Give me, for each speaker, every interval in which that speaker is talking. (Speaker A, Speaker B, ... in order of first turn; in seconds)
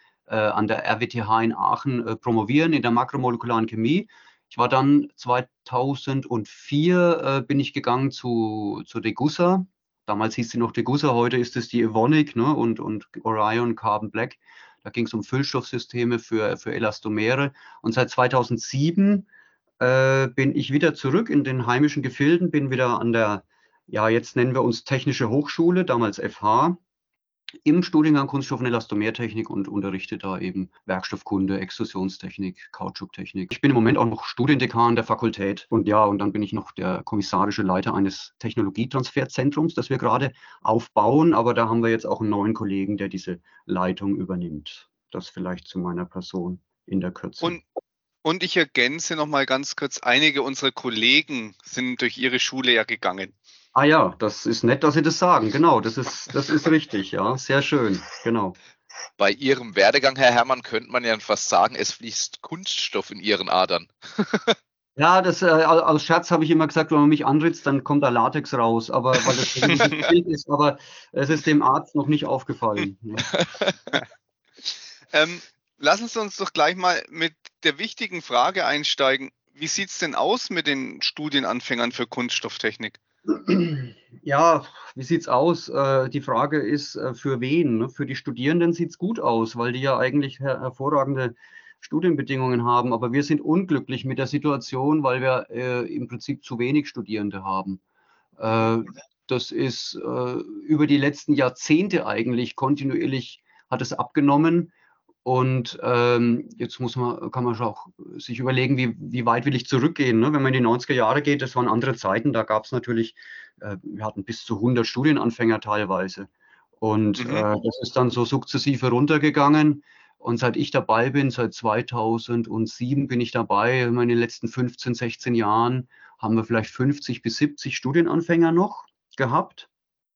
Speaker A: 0.3-19.3, 19.8-26.8, 27.6-47.6, 53.7-58.6, 65.0-73.3, 83.3-97.8, 98.4-104.7, 105.2-116.3, 116.8-129.7
Speaker B: 48.2-53.3, 69.6-70.1, 75.1-83.0, 117.2-117.5
Speaker C: 59.2-64.5, 73.2-73.8